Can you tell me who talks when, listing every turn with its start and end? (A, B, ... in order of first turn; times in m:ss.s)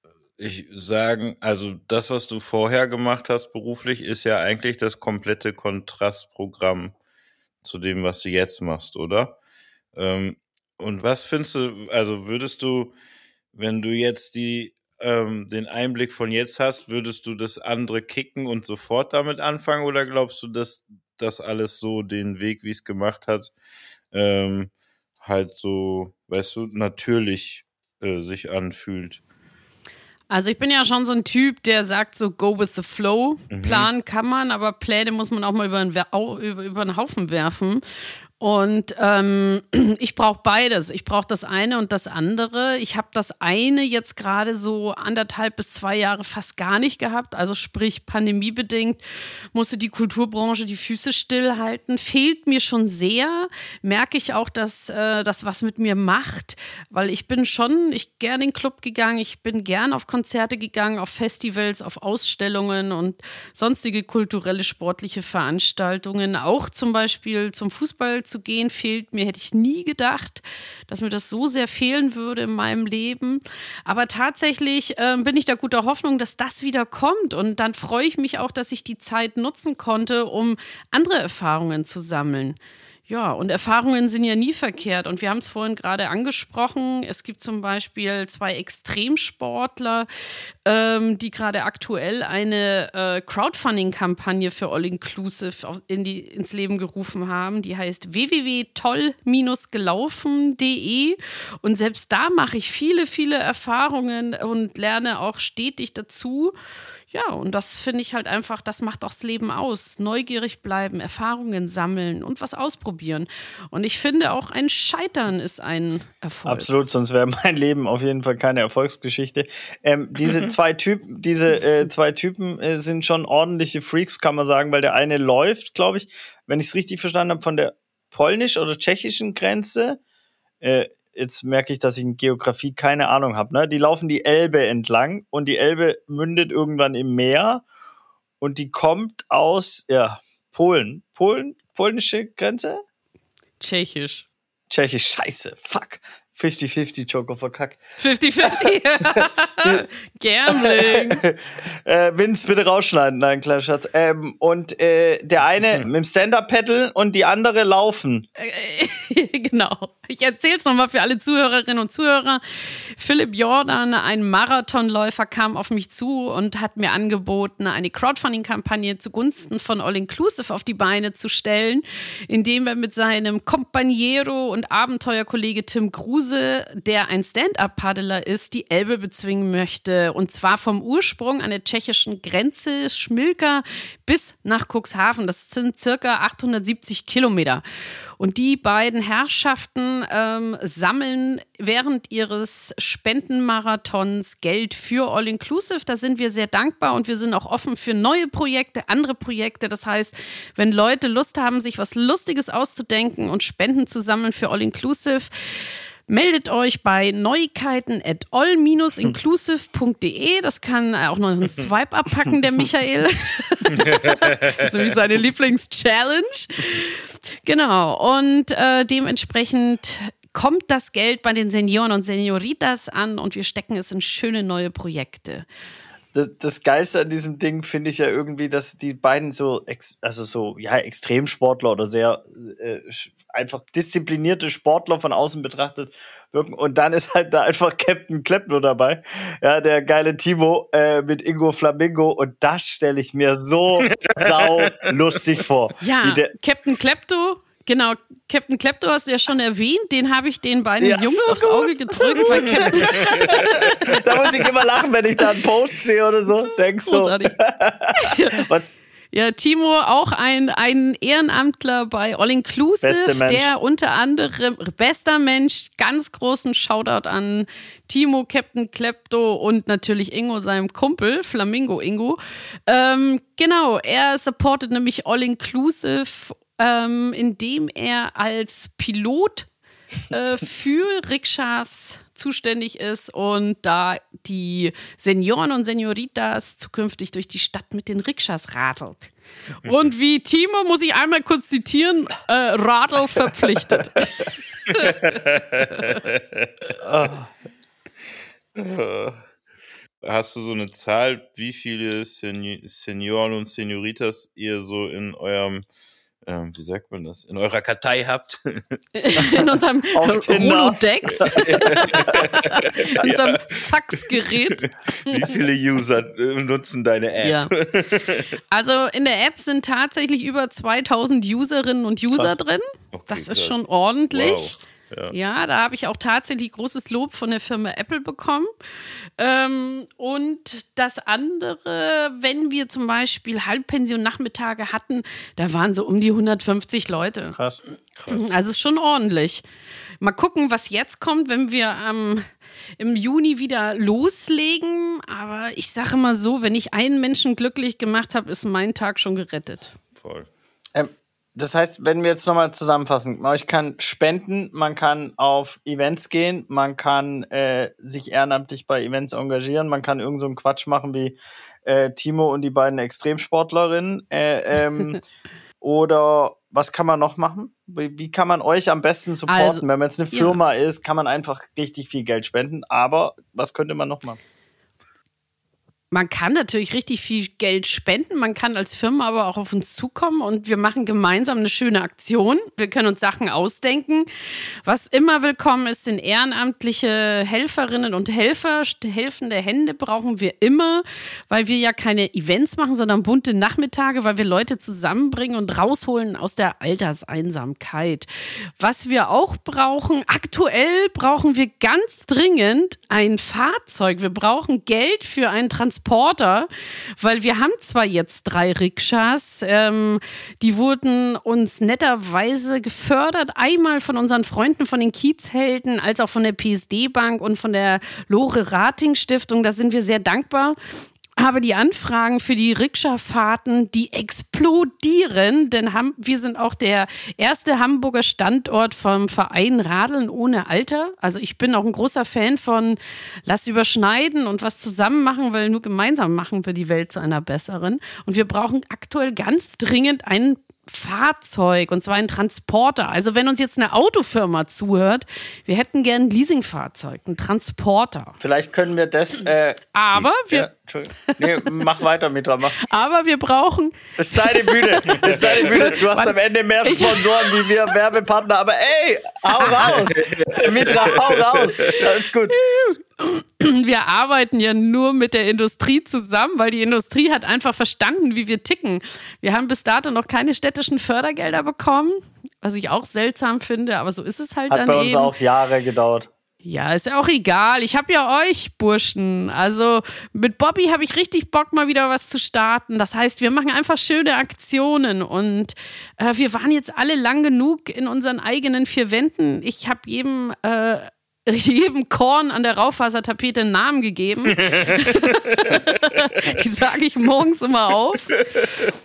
0:00.4-0:06.9 A
0:07.6-0:09.4 A
0:09.9-0:12.9 A
0:13.5-0:23.5 A
0:24.1-0:29.2 A
0:30.3-0:37.8 B
0:33.5-0:33.9 A
0:38.4-0:49.0 B
0:49.5-1:22.6 B
1:23.1-1:30.1 B
1:30.6-1:46.5 B
1:47.1-1:56.7 B
1:56.4-2:10.0 C
2:10.6-2:17.6 C
2:18.4-2:22.8 C
2:23.6-2:24.3 B
2:24.7-2:27.8 C
2:28.0-2:31.2 B
2:28.4-2:29.8 C
2:30.5-2:38.3 C
2:38.4-3:07.6 B
3:08.2-3:45.4 B
3:33.8-3:34.3 A
3:46.1-4:06.3 C
4:03.9-4:04.9 A
4:05.8-4:14.0 B
4:10.8-4:18.7 C
4:13.0-4:13.5 A
4:16.8-4:17.4 B
4:17.9-4:18.4 B
4:19.1-4:39.5 B
4:22.8-4:23.5 C
4:40.1-4:49.1 B
4:49.6-4:54.1 B
4:54.7-4:56.5 A
4:54.7-4:55.0 B
4:56.8-4:57.3 C
4:58.6-4:59.2 A
5:00.0-5:05.6 A
5:06.2-5:08.8 A
5:08.9-5:15.3 B
5:09.9-5:12.0 C
5:11.2-5:18.3 A
5:17.2-5:17.5 B
5:18.5-5:24.6 B
5:22.9-5:25.1 A
5:25.1-5:28.5 B
5:29.2-5:37.4 B
5:37.4-5:37.6 C
5:38.0-5:38.3 A
5:38.1-5:39.4 B
5:40.0-5:42.3 B
5:42.8-5:49.8 B
5:49.9-5:50.3 A
5:50.7-6:05.0 C
6:05.6-6:14.2 C
6:09.3-6:10.4 B
6:15.9-6:24.1 B
6:24.6-7:00.6 B
7:01.2-7:28.2 B
7:28.2-7:29.6 C
7:29.7-7:30.5 B
7:30.3-7:32.6 C
7:31.0-7:31.6 B
7:32.6-7:37.5 B
7:34.0-7:42.4 C
7:39.6-7:41.7 A
7:42.3-7:55.2 B
7:54.5-7:56.1 C
7:56.4-8:18.1 B
8:14.4-8:15.6 A
8:18.1-8:18.7 A